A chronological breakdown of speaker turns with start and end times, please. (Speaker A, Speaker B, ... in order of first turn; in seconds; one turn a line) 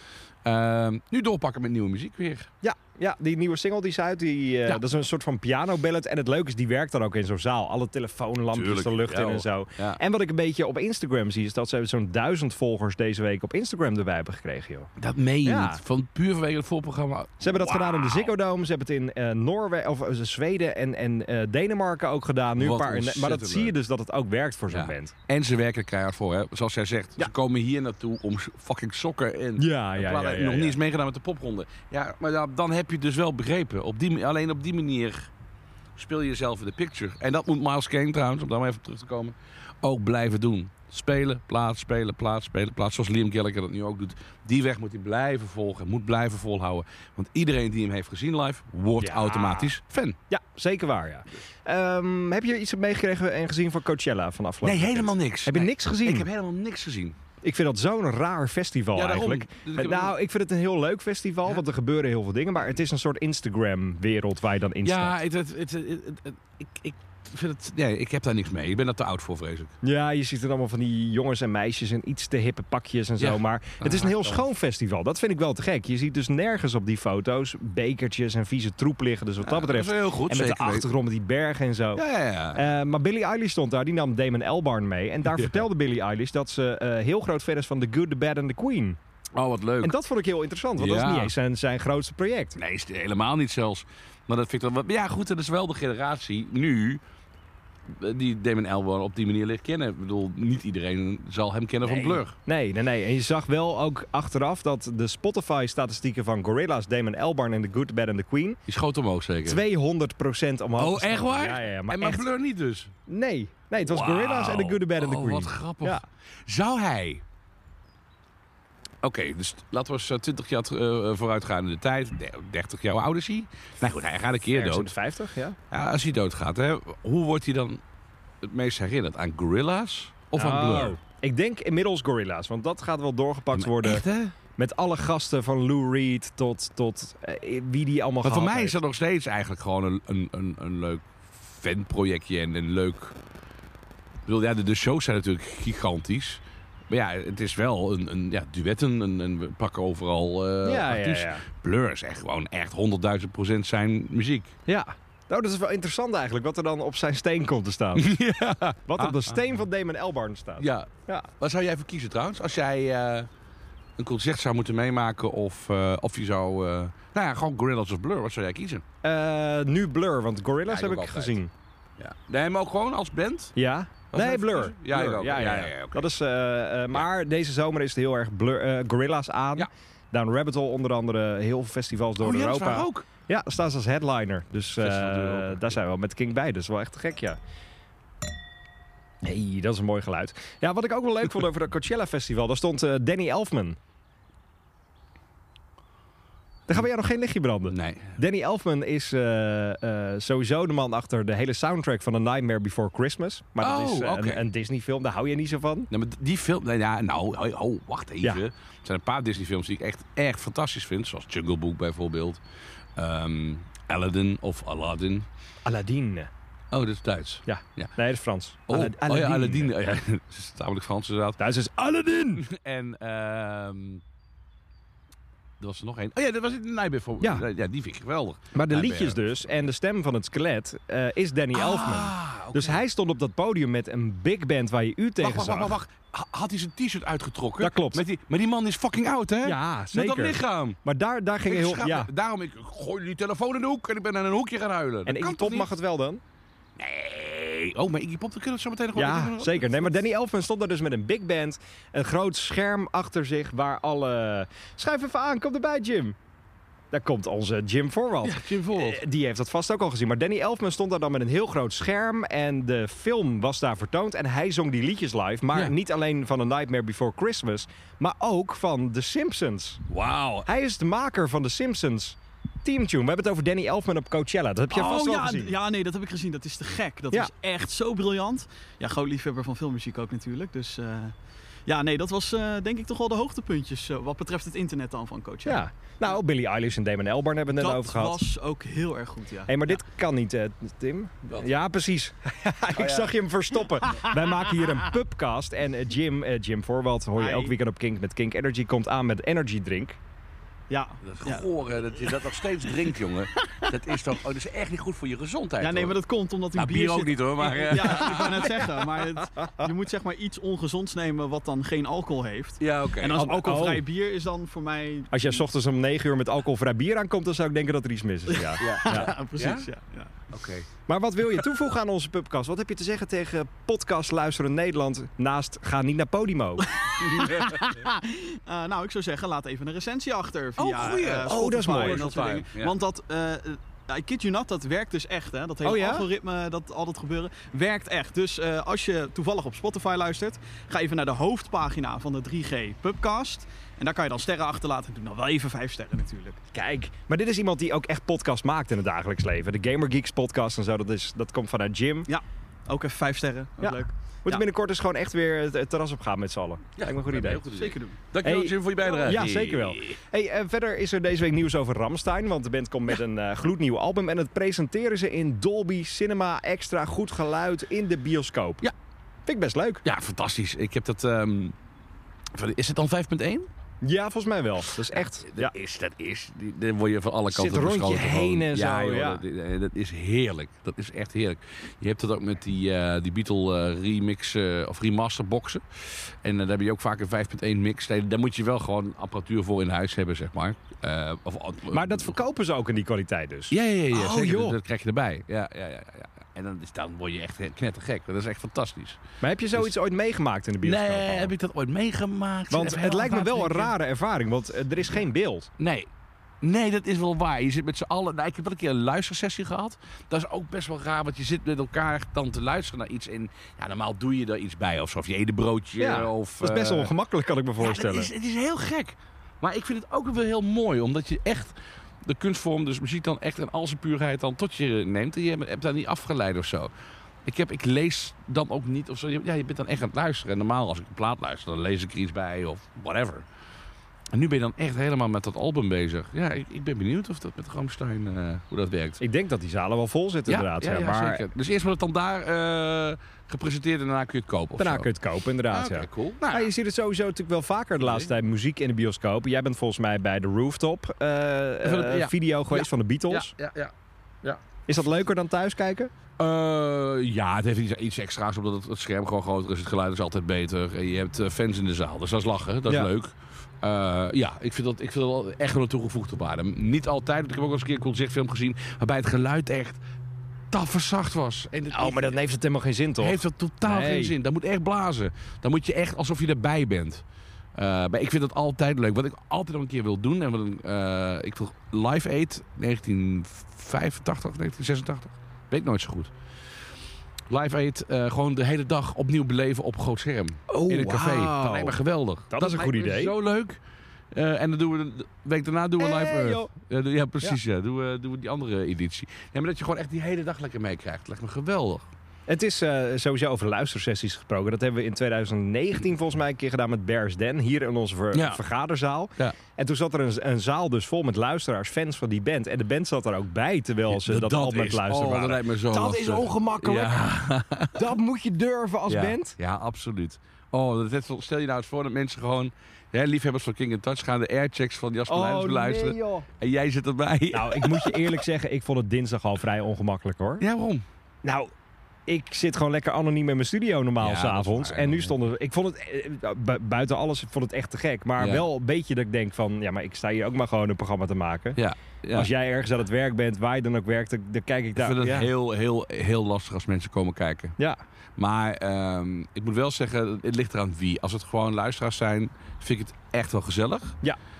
Speaker A: 0.4-2.5
Speaker B: 2.6-14.9
Speaker A: 8.5-10.0
Speaker A: 15.0-18.3
Speaker B: 15.4-15.8
Speaker B: 17.4-25.1
Speaker A: 22.6-23.7
Speaker A: 24.7-35.3
Speaker B: 29.6-30.8
Speaker A: 36.0-50.2
Speaker B: 49.0-49.7
Speaker B: 50.3-56.3
Speaker A: 54.6-57.1
Speaker B: 57.4-65.1
Speaker A: 58.9-60.1
Speaker A: 64.8-69.7
Speaker B: 69.8-89.0
Speaker A: 73.2-74.4
Speaker A: 79.4-80.9
Speaker A: 81.9-82.6
Speaker A: 85.3-85.6
Speaker A: 89.3-90.0
Speaker B: 89.8-92.6
Speaker A: 90.8-91.3
Speaker A: 92.6-97.0
Speaker A: 97.9-102.3
Speaker B: 101.9-108.6
Speaker A: 108.7-109.6
Speaker B: 109.4-112.2
Speaker A: 110.8-112.9
Speaker B: 113.1-116.0
Speaker A: 113.8-117.2
Speaker A: 119.0-124.9
Speaker B: 124.5-125.6
Speaker A: 125.7-127.8
Speaker A: 128.4-130.9
Speaker B: 130.3-134.0
Speaker A: 133.5-134.3
Speaker B: 134.6-138.8
Speaker A: 138.2-143.2
Speaker A: 144.2-154.5
Speaker B: 150.6-151.4
Speaker B: 154.7-158.1
Speaker A: 157.9-159.4
Speaker B: 158.9-161.3
Speaker A: 160.6-163.3
Speaker A: 164.0-168.8
Speaker B: 169.0-171.5
Speaker A: 170.7-171.4
Speaker A: 172.0-173.5
Speaker B: 173.6-187.4
Speaker A: 174.1-176.1
Speaker A: 182.2-183.1
Speaker A: 184.8-185.7
Speaker B: 189.2-193.8
Speaker B: 196.7-205.9
Speaker A: 197.7-198.2
Speaker A: 203.6-204.4
Speaker A: 205.9-212.4
Speaker A: 212.9-215.3
Speaker B: 215.6-216.3
Speaker A: 216.7-217.9
Speaker B: 217.5-219.7
Speaker A: 218.7-221.4
Speaker B: 221.4-222.4
Speaker A: 222.3-224.0
Speaker A: 225.6-229.6
Speaker B: 228.5-235.8
Speaker A: 231.5-232.8
Speaker A: 235.2-240.8
Speaker B: 237.6-238.0
Speaker B: 239.4-242.1
Speaker A: 241.4-245.7
Speaker B: 245.1-246.2
Speaker A: 246.8-249.9
Speaker B: 248.9-256.2
Speaker B: 256.9-269.8
Speaker A: 258.2-259.0
Speaker A: 269.9-270.5
Speaker B: 270.4-275.5
Speaker C: 274.7-281.1
Speaker C: 281.6-285.6
Speaker B: 285.4-288.2
Speaker C: 287.6-289.7
Speaker B: 289.5-300.0
Speaker A: 292.7-293.1
Speaker C: 297.2-297.5
Speaker C: 300.7-301.5
Speaker A: 301.0-306.0
Speaker C: 303.4-303.7
Speaker C: 305.6-315.4
Speaker A: 306.5-308.6
Speaker B: 307.8-308.3
Speaker A: 312.6-313.2
Speaker B: 313.2-313.8
Speaker B: 315.1-319.1
Speaker C: 318.3-320.1
Speaker A: 318.6-319.7
Speaker A: 320.3-320.6
Speaker B: 320.9-326.7
Speaker C: 326.7-346.4
Speaker A: 327.0-327.6
Speaker A: 330.6-332.7
Speaker B: 330.7-332.3
Speaker B: 335.6-336.1
Speaker B: 346.5-352.1
Speaker C: 352.1-354.4
Speaker B: 353.6-357.4
Speaker A: 356.8-360.0
Speaker C: 357.5-357.9
Speaker B: 358.2-368.7
Speaker B: 369.2-369.8
Speaker A: 369.8-371.5
Speaker A: 372.3-373.5
Speaker B: 373.8-375.5
Speaker A: 374.9-392.1
Speaker B: 377.3-379.2
Speaker B: 391.7-394.6
Speaker A: 393.5-399.0
Speaker B: 399.2-401.3
Speaker A: 400.6-403.7
Speaker B: 402.5-405.5
Speaker A: 405.6-405.9
Speaker A: 406.4-416.9
Speaker B: 415.8-418.1
Speaker A: 417.6-426.7
Speaker A: 427.2-433.2
Speaker A: 434.1-439.0
Speaker B: 439.0-441.2
Speaker A: 440.3-444.9
Speaker B: 444.6-453.3
Speaker A: 445.5-446.5
Speaker A: 447.8-448.1
Speaker A: 451.6-454.4
Speaker B: 454.6-455.9
Speaker A: 456.2-469.8
Speaker A: 470.5-472.1
Speaker B: 471.7-474.1
Speaker A: 473.0-477.0
Speaker A: 477.5-486.1
Speaker A: 487.3-493.6
Speaker B: 490.5-491.8
Speaker B: 492.3-493.1
Speaker A: 494.1-501.9
Speaker B: 495.8-496.5
Speaker B: 502.3-517.1
Speaker A: 508.1-508.4
Speaker A: 513.9-517.9
Speaker B: 517.7-519.4
Speaker A: 518.9-528.1
Speaker B: 525.1-526.3
Speaker B: 527.3-530.4
Speaker A: 530.4-530.8
Speaker B: 531.2-531.5
Speaker B: 532.1-541.6
Speaker A: 534.0-535.1
Speaker A: 538.2-538.4
Speaker A: 541.5-542.3
Speaker B: 542.1-545.3
Speaker A: 544.8-547.5
Speaker A: 548.2-554.0